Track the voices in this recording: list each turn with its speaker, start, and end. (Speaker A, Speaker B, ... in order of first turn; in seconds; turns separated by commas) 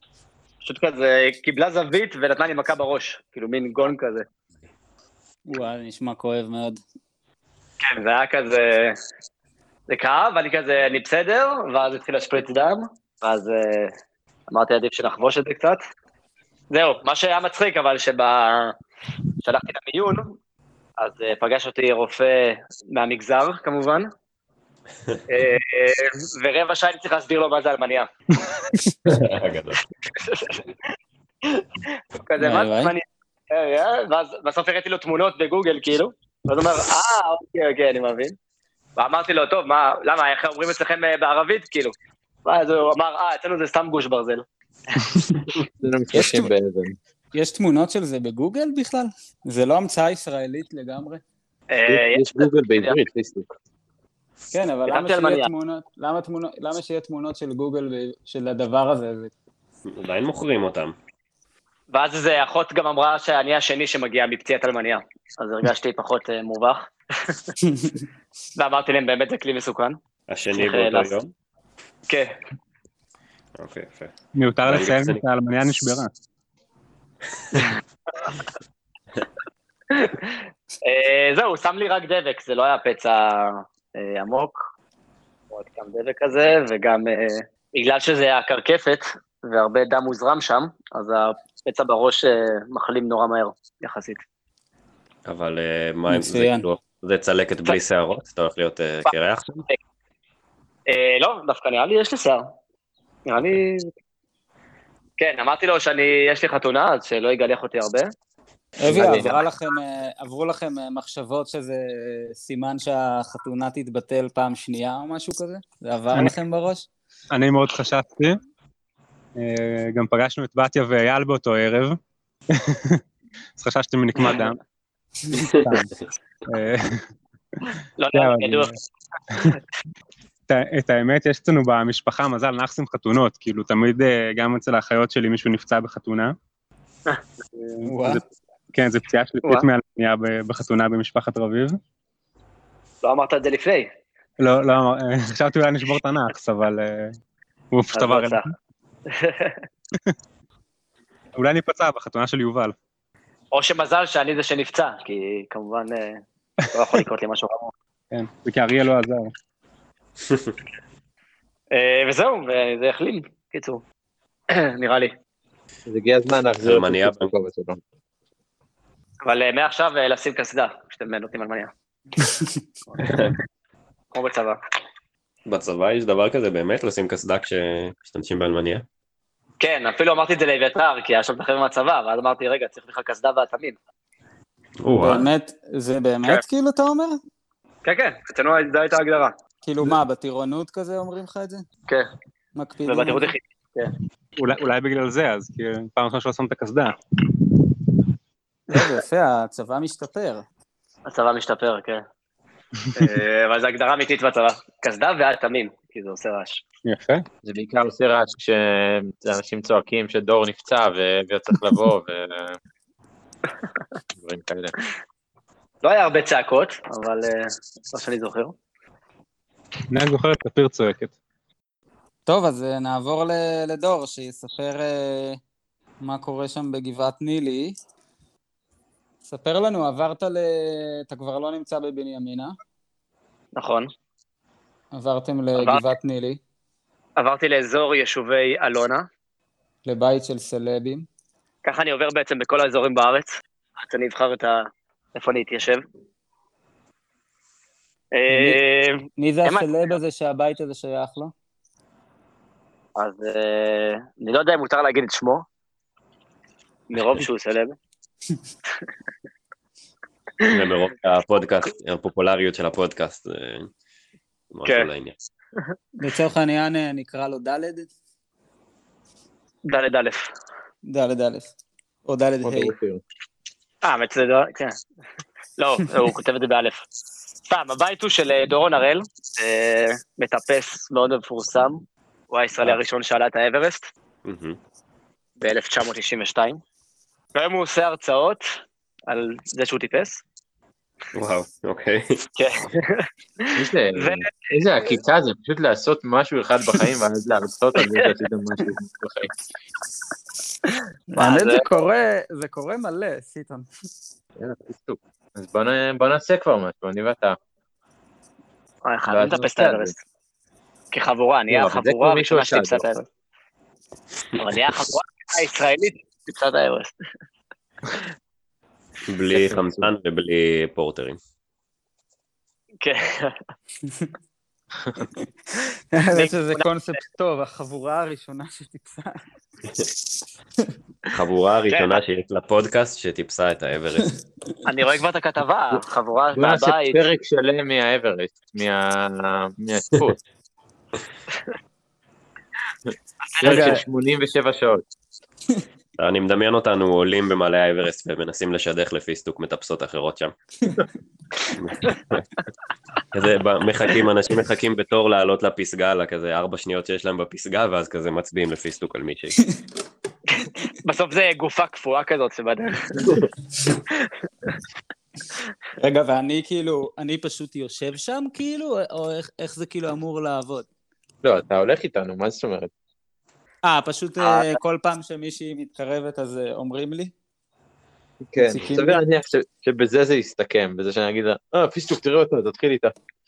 Speaker A: 0.6-4.3, Speaker B: 5.5-6.8, Speaker A: 7.8-9.0, Speaker A: 9.9-13.9, Speaker A: 14.5-15.8, Speaker A: 16.7-18.8, Speaker A: 19.4-20.4, Speaker A: 21.0-24.1, Speaker A: 25.3-28.1, Speaker C: 29.1-29.8, Speaker A: 30.2-30.6, Speaker A: 32.2-38.4, Speaker B: 32.4-32.9, Speaker A: 39.0-44.5, Speaker D: 45.8-47.0, Speaker B: 47.3-51.2, Speaker A: 51.7-53.0, Speaker D: 51.9-53.5, Speaker B: 54.5-59.3, Speaker A: 54.9-55.5, Speaker C: 59.9-61.0, Speaker A: 61.9-67.4, Speaker B: 67.6-68.0, Speaker A: 68.6-70.0, Speaker C: 70.3-71.3, Speaker A: 70.5-71.2, Speaker A: 72.1-72.3, Speaker C: 73.6-74.1, Speaker E: 74.3-76.1, Speaker C: 74.7-75.2, Speaker A: 79.9-84.7, Speaker A: 85.5-94.2, Speaker C: 95.3-99.6, Speaker B: 96.1-96.7, Speaker A: 100.9-102.5, Speaker A: 103.3-103.9, Speaker A: 105.2-108.1, Speaker B: 108.8-116.9, Speaker D: 108.9-109.4, Speaker A: 109.0-109.3, Speaker E: 117.3-118.4, Speaker E: 119.4-122.0, Speaker E: 122.5-123.0, Speaker E: 123.6-124.6, Speaker A: 124.2-124.5, Speaker C: 125.6-125.8, Speaker E: 125.6-125.9, Speaker E: 126.5-127.0, Speaker A: 128.0-128.7, Speaker E: 128.1-128.7, Speaker E: 129.3-129.6, Speaker E: 130.5-136.3, Speaker A: 137.1-137.7, Speaker B: 137.8-138.2, Speaker E: 137.9-141.8, Speaker A: 143.0-143.9, Speaker E: 144.4-147.1, Speaker E: 147.7-148.5, Speaker A: 147.9-148.5, Speaker A: 149.1-149.7, Speaker E: 151.4-152.7, Speaker A: 153.5-157.7, Speaker E: 158.1-159.3, Speaker A: 161.7-163.8, Speaker A: 164.5-165.1, Speaker D: 165.9-167.8, Speaker C: 166.6-167.3, Speaker A: 169.2-171.7, Speaker C: 173.1-173.3, Speaker A: 174.1-174.6, Speaker C: 175.5-178.9, Speaker A: 179.6-183.8, Speaker C: 184.8-185.3, Speaker B: 185.0-187.2, Speaker A: 187.8-189.3, Speaker B: 189.6-191.7, Speaker B: 192.6-193.3, Speaker A: 192.9-193.9, Speaker E: 194.4-196.9, Speaker B: 198.7-200.5, Speaker A: 201.1-202.0, Speaker A: 203.0-206.6, Speaker E: 206.9-207.2, Speaker D: 207.4-212.6, Speaker D: 214.2-214.7, Speaker A: 215.8-218.5, Speaker E: 219.9-221.1, Speaker B: 222.3-225.4, Speaker B: 226.0-227.8, Speaker B: 229.3-232.5, Speaker A: 233.6-233.9, Speaker B: 234.9-236.4, Speaker A: 235.6-235.8, Speaker A: 237.2-239.1, Speaker B: 239.9-241.1, Speaker A: 241.6-244.6, Speaker A: 245.2-245.8, Speaker A: 248.1-249.8, Speaker B: 248.3-248.6, Speaker B: 249.2-251.3, Speaker A: 253.0-255.4, Speaker A: 256.9-257.8, Speaker C: 257.0-257.2, Speaker C: 260.5-263.7, Speaker C: 264.5-265.2, Speaker B: 266.0-267.9, Speaker A: 269.7-270.3, Speaker B: 270.9-271.5, Speaker B: 272.1-272.7, Speaker D: 272.4-273.0, Speaker A: 273.8-274.8, Speaker A: 275.6-276.8, Speaker A: 277.5-283.9, Speaker C: 284.2-284.6, Speaker A: 285.4-286.6, Speaker A: 287.4-288.5, Speaker A: 289.1-290.2, Speaker C: 291.1-292.2, Speaker A: 292.4-294.9, Speaker D: 293.6-299.3, Speaker A: 297.8-298.1, Speaker A: 300.7-301.6, Speaker B: 301.1-303.7, Speaker D: 304.4-307.4, Speaker A: 308.9-310.0, Speaker D: 309.1-309.9, Speaker A: 310.9-313.1, Speaker D: 311.5-312.8, Speaker A: 314.4-317.0, Speaker C: 319.1-321.2, Speaker D: 319.3-319.9, Speaker A: 322.8-323.4, Speaker B: 325.9-329.2, Speaker A: 326.1-326.6, Speaker C: 331.1-334.1, Speaker A: 331.7-332.0, Speaker A: 334.6-337.0, Speaker D: 336.3-340.2, Speaker D: 342.9-344.8, Speaker A: 343.3-343.8, Speaker B: 343.4-343.8, Speaker C: 346.0-350.4, Speaker C: 351.6-352.2, Speaker C: 353.1-359.4, Speaker A: 360.4-363.1, Speaker A: 363.9-364.6, Speaker B: 365.8-370.7, Speaker D: 371.2-372.7, Speaker B: 373.6-377.1, Speaker A: 374.2-374.6, Speaker D: 378.3-382.9, Speaker B: 378.4-379.0